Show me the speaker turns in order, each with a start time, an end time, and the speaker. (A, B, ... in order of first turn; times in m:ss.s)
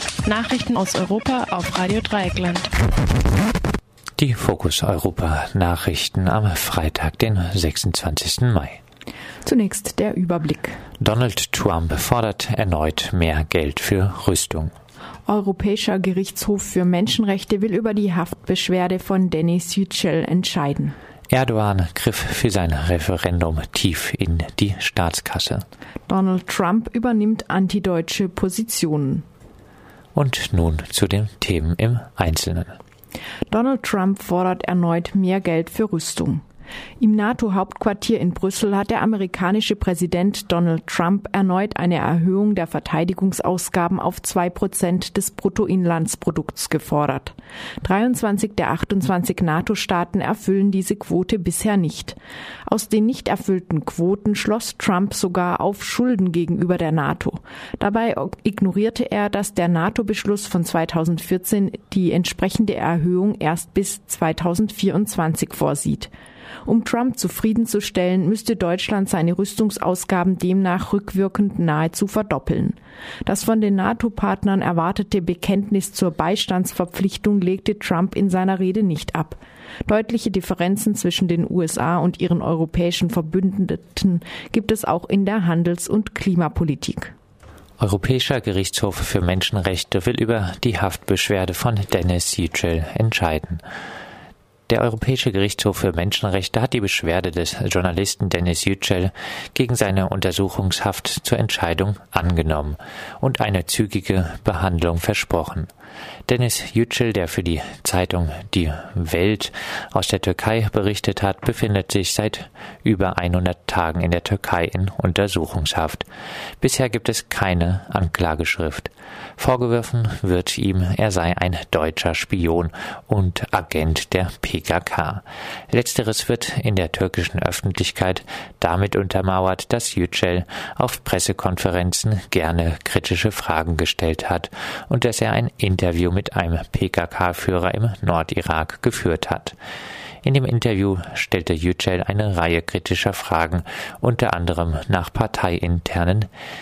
0:00.2-0:02.7 A
0:04.2-0:08.8 B
0:09.4-0:10.8 C
0:11.0-0:14.7 B
0:15.3-0:21.0 C
0:21.3-0:25.6 B
0:26.1-0:29.3 C
0:30.2-0:32.8 B
0:33.5-0:36.4 C
0:37.0-1:06.1 C
1:06.7-1:27.1 C
1:27.8-1:33.6 B
1:34.7-1:45.7 B
1:46.3-1:56.1 B
1:56.6-2:19.6 B
2:20.2-2:26.3 B